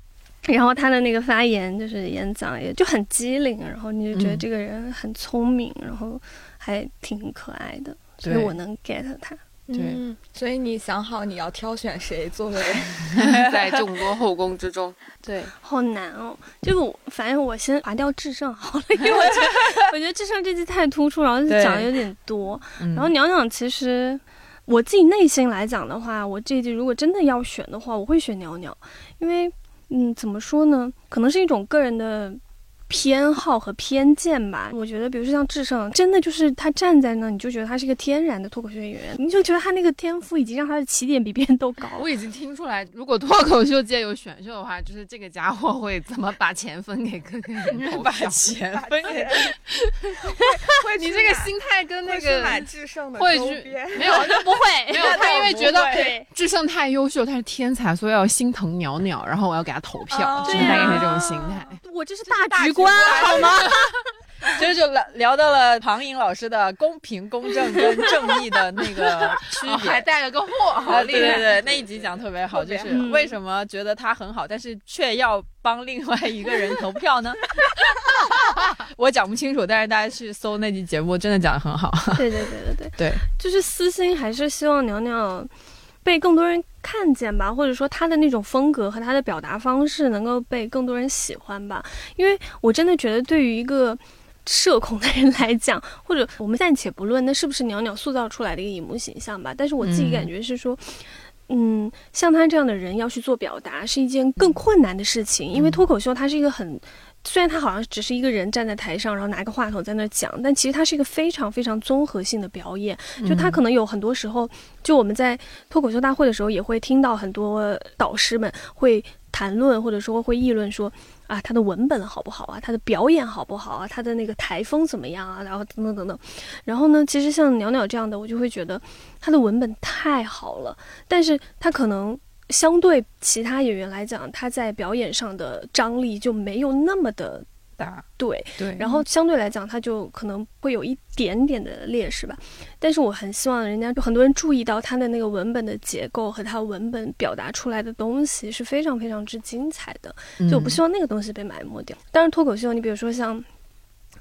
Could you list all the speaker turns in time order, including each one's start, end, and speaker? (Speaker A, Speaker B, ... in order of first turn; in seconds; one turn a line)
Speaker A: 0.5-9.4
Speaker B: 4.1-4.4
Speaker B: 8.2-8.5
Speaker C: 9.7-13.2
Speaker B: 9.7-10.0
Speaker B: 13.2-13.8
Speaker D: 13.2-15.0
Speaker B: 15.2-15.5
Speaker A: 15.6-42.1
Speaker B: 19.1-19.9
Speaker B: 21.5-21.9
Speaker B: 22.8-23.1
Speaker D: 42.0-48.4
Speaker B: 47.7-49.5
Speaker C: 48.7-49.5
Speaker C: 50.5-54.5
Speaker D: 50.8-61.8
Speaker A: 54.2-56.3
Speaker B: 55.0-56.1
Speaker C: 55.0-55.3
Speaker C: 60.1-61.8
Speaker A: 60.5-61.1
Speaker B: 60.5-61.1
Speaker A: 61.8-63.7
Speaker C: 62.3-63.8
Speaker D: 62.9-63.8
Speaker B: 63.0-63.7
Speaker B: 64.5-70.0
Speaker D: 69.5-71.9
Speaker B: 70.9-82.3
Speaker C: 70.9-73.0
Speaker A: 71.1-71.5
Speaker A: 72.9-73.3
Speaker A: 82.2-85.5
Speaker B: 83.0-83.2
Speaker A: 86.0-137.5
Speaker B: 99.8-100.3
Speaker B: 105.5-105.8
Speaker B: 113.2-113.6
Speaker B: 137.8-138.1
Speaker A: 138.2-153.5
Speaker B: 138.6-139.1
Speaker B: 150.4-150.8